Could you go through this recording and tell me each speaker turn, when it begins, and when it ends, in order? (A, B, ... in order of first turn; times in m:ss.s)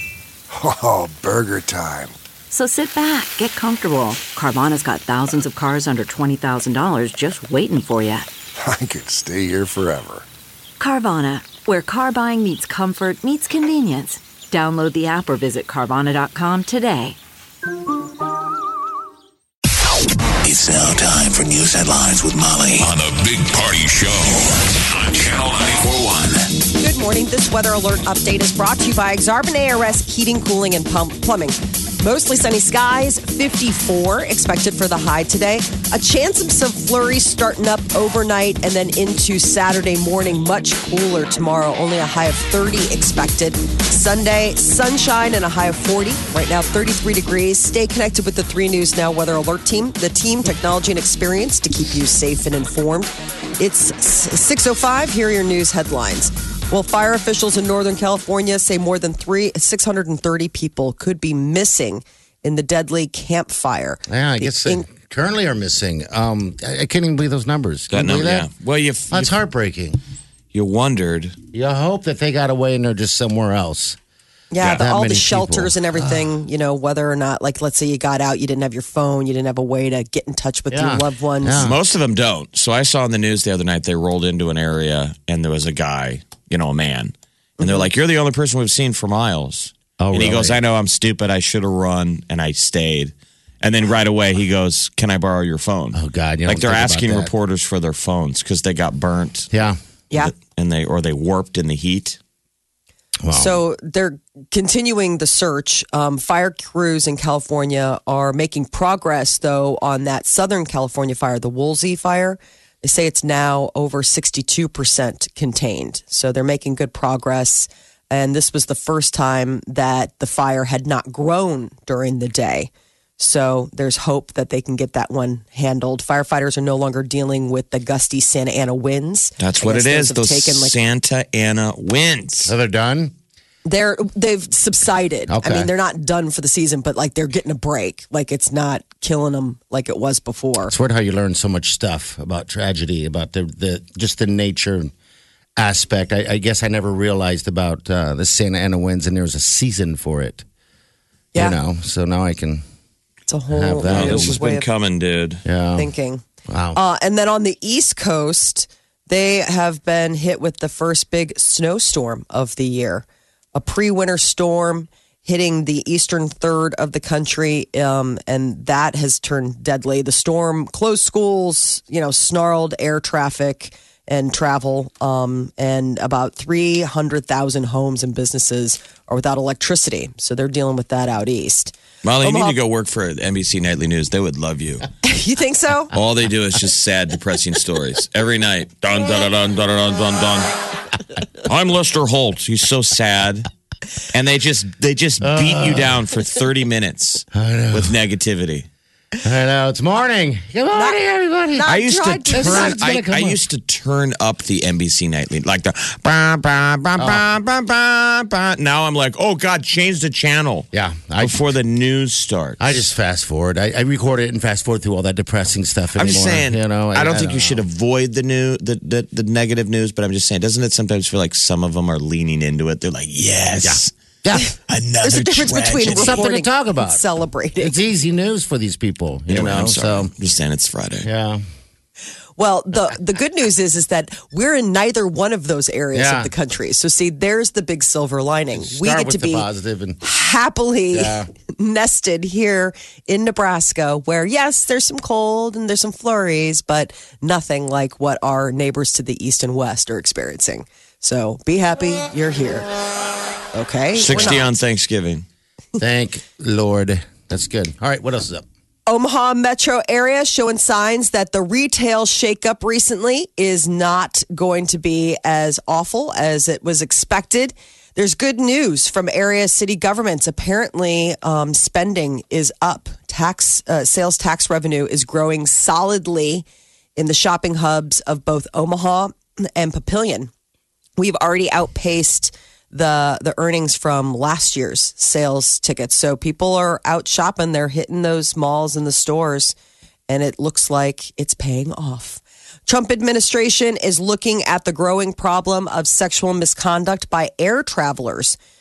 0:00.5-0:02.1 A
0:02.5-0:08.3 B
0:08.6-0:10.3 A
0:10.8-0:17.2 B
0:20.4-0:26.5 C
0:26.8-1:04.9 D
1:04.1-1:08.5 E
1:07.9-1:09.3 F
1:09.1-1:10.0 E
1:10.5-1:11.4 F
1:11.5-1:14.0 E
1:14.5-1:21.6 D
1:14.6-1:16.3 E
1:20.7-1:21.8 E
1:21.6-1:39.5 F
1:27.6-1:27.9 D
1:30.0-1:30.6 E
1:35.9-1:37.3 E
1:39.5-1:39.8 E
1:40.1-1:42.2 F
1:43.2-1:43.6 E
1:43.3-2:10.8 D
2:09.4-2:12.5 F
2:12.4-2:13.1 E
2:13.6-2:20.7 D
2:15.3-2:15.7 E
2:20.7-2:24.9 E
2:25.6-2:30.4 E
2:31.3-2:32.6 E
2:33.3-2:34.7 D
2:33.5-2:34.4 E
2:33.9-2:35.4 F
2:35.4-2:35.9 E
2:35.8-2:36.2 D
2:36.5-2:36.8 E
2:36.7-3:02.6 D
3:02.0-3:04.9 F
3:05.0-3:05.9 D
3:05.9-3:10.5 F
3:11.4-3:13.5 F
3:14.1-3:18.6 F
3:15.2-3:16.0 E
3:17.3-3:17.9 E
3:19.2-3:21.7 E
3:20.7-3:21.0 D
3:21.5-3:22.8 D
3:21.7-3:30.7 F
3:22.3-3:23.4 E
3:27.0-3:27.2 E
3:30.7-3:31.5 E
3:31.2-3:32.8 F
3:32.6-3:37.6 E
3:36.0-3:43.9 F
3:43.6-3:44.5 E
3:44.7-3:46.2 F
3:45.0-3:47.8 D
3:45.8-3:47.0 E
3:47.6-3:50.1 E
3:49.3-3:51.1 F
3:51.0-3:51.4 E
3:52.4-3:59.5 D
3:55.9-3:56.3 E
3:58.5-4:00.0 E
4:00.0-4:12.7 D
4:00.9-4:01.3 E
4:13.5-4:14.5 D
4:14.0-4:15.2 F
4:15.8-4:18.4 E
4:18.9-4:36.4 D
4:37.0-4:40.3 D
4:41.0-4:49.6 D
4:50.1-4:58.4 D